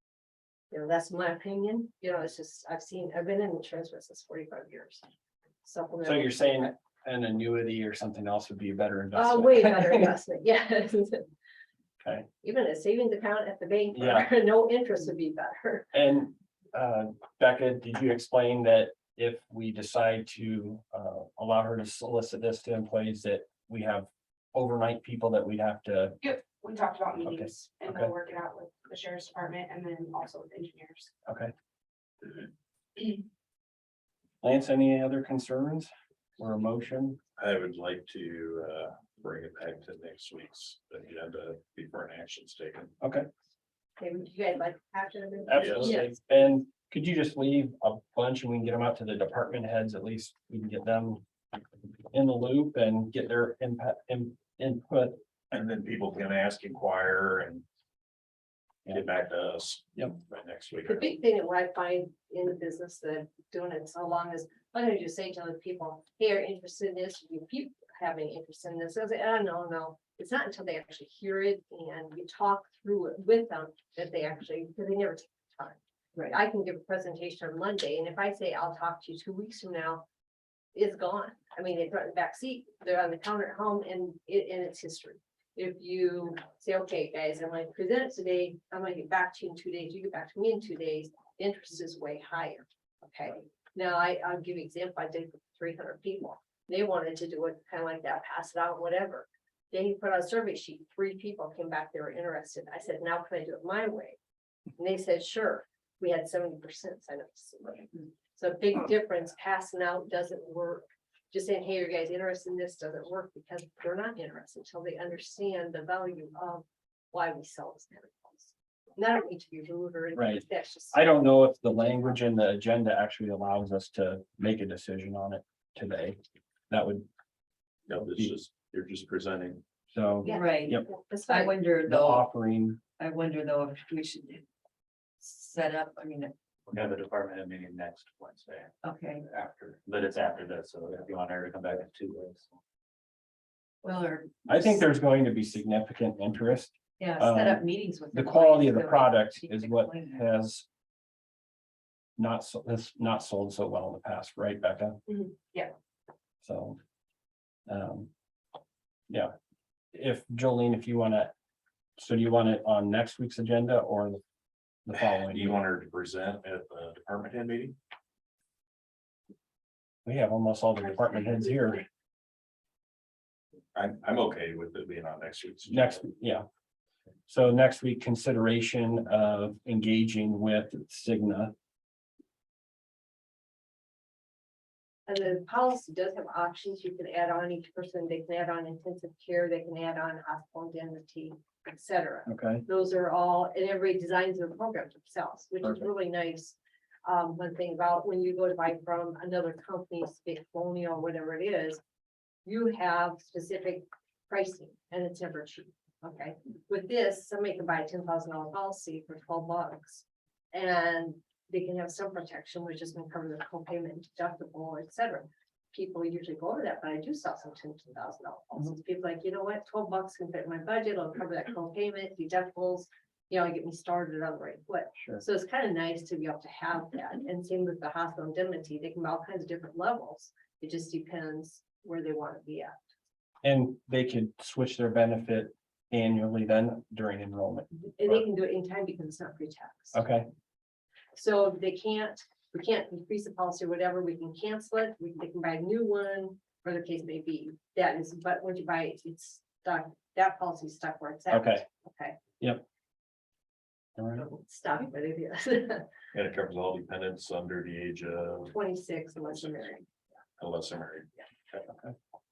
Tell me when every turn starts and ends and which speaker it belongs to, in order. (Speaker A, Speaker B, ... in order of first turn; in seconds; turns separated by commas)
Speaker A: 0.7-5.0, Speaker A: 5.6-6.7, Speaker B: 6.0-10.1, Speaker A: 9.1-11.3, Speaker B: 12.0-12.3, Speaker A: 12.4-15.9, Speaker B: 13.9-14.3, Speaker B: 15.9-26.2, Speaker B: 27.2-28.1, Speaker C: 27.7-31.0, Speaker B: 31.3-31.5, Speaker B: 34.4-37.2, Speaker D: 37.4-42.9, Speaker B: 43.0-43.3, Speaker A: 44.0-46.1, Speaker B: 45.5-51.2, Speaker D: 45.5-45.8, Speaker B: 52.1-55.2, Speaker D: 55.5-57.6, Speaker D: 58.9-61.1, Speaker A: 60.8-80.0, Speaker A: 80.7-104.2, Speaker A: 104.8-121.0, Speaker B: 120.1-126.2, Speaker B: 126.7-127.1, Speaker D: 127.9-129.6, Speaker B: 128.0-128.3, Speaker B: 129.9-130.9, Speaker A: 130.2-131.5, Speaker E: 130.2-132.3, Speaker B: 131.8-132.8, Speaker E: 133.0-134.4, Speaker E: 135.2-136.3, Speaker F: 136.7-142.5, Speaker E: 138.8-139.2, Speaker E: 143.8-144.7, Speaker B: 144.5-150.7, Speaker E: 147.0-150.2, Speaker B: 152.2-155.0, Speaker B: 156.4-156.8, Speaker B: 157.7-158.1, Speaker B: 159.9-161.3, Speaker B: 162.0-164.2, Speaker B: 164.8-165.6, Speaker D: 165.3-167.8, Speaker B: 170.0-171.8, Speaker D: 173.8-176.0, Speaker B: 175.7-176.5, Speaker B: 177.3-181.5, Speaker A: 185.1-201.8, Speaker B: 192.3-192.7, Speaker A: 202.5-232.8, Speaker B: 225.0-225.2, Speaker B: 233.4-238.2, Speaker A: 238.0-240.0, Speaker B: 239.9-240.2, Speaker A: 241.1-252.2, Speaker B: 251.3-251.6, Speaker B: 254.0-254.3, Speaker A: 254.2-255.9, Speaker D: 256.1-258.5, Speaker A: 258.5-259.9, Speaker D: 260.4-261.1, Speaker B: 261.6-261.9